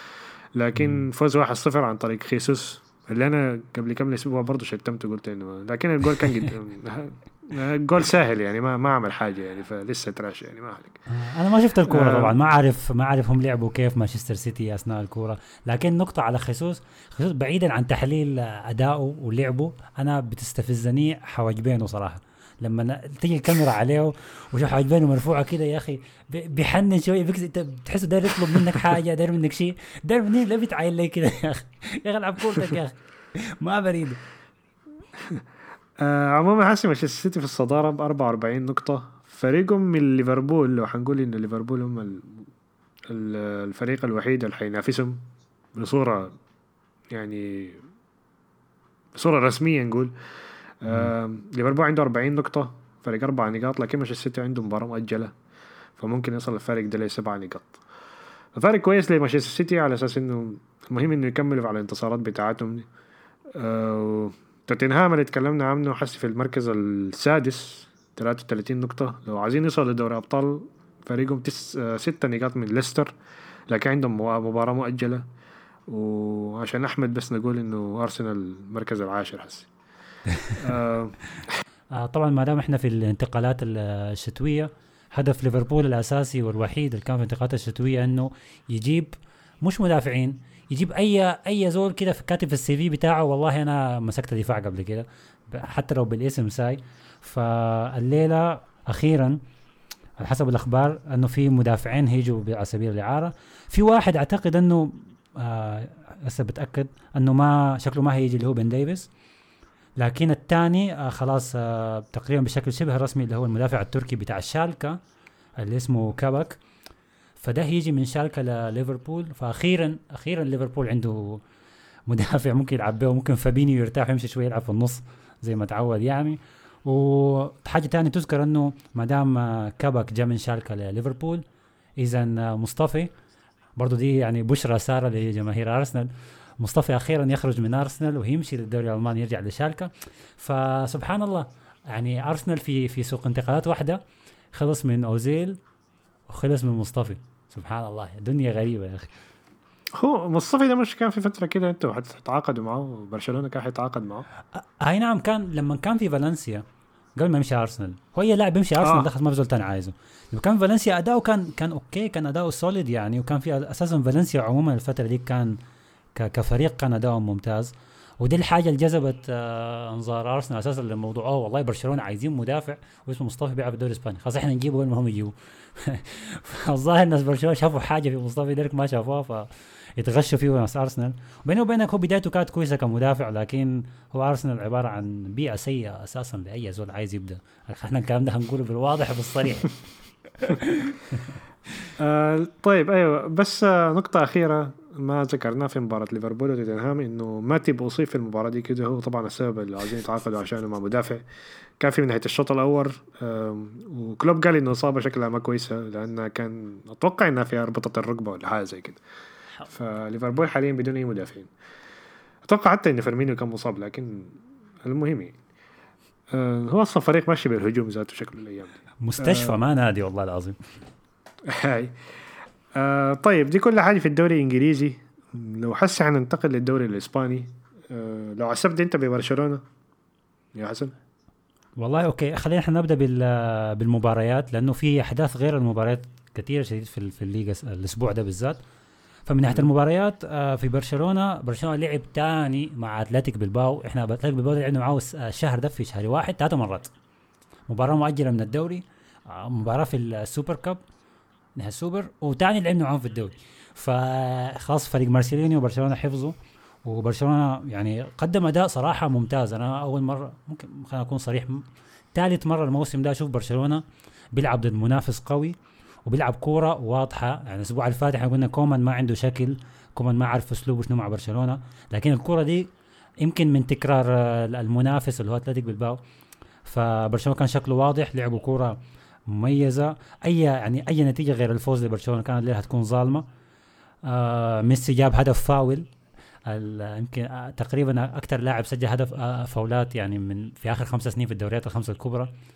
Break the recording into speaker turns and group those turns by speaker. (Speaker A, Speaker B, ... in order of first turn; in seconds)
Speaker A: 0.6-11.0, 11.9-12.3, 36.0-42.3, 43.1-45.2, 45.8-46.3, 47.1-47.8, 49.2-50.1, 50.8-55.3, 56.0-57.8, 58.5-62.9, 63.5-73.1, 73.7-75.2, 75.9-79.7, 80.5-81.2, 150.0-154.2, 158.8-159.1, 192.0-201.2, 201.8-209.0, 209.7-211.5, 212.4-214.3, 214.8-215.4, 216.3-219.6, 221.5-221.9, 222.8-229.6, 230.6-230.9
Speaker B: 0.8-1.1, 11.1-34.2, 50.9-51.1, 80.3-80.6, 82.0-99.4, 100.2-109.1, 110.0-115.0, 115.6-116.6, 117.4-121.4, 122.1-131.4, 132.0-133.1, 133.8-136.1, 136.6-144.0, 144.5-145.6, 146.3-149.1, 154.6-156.6, 157.2-165.6, 166.2-189.7, 190.4-191.9, 219.0-220.6, 231.8-238.6, 239.3-246.9, 247.7-250.8, 251.6-265.6, 266.1-272.7, 273.2-276.0, 276.6-278.8, 279.3-283.2, 284.1-285.9, 286.5-292.3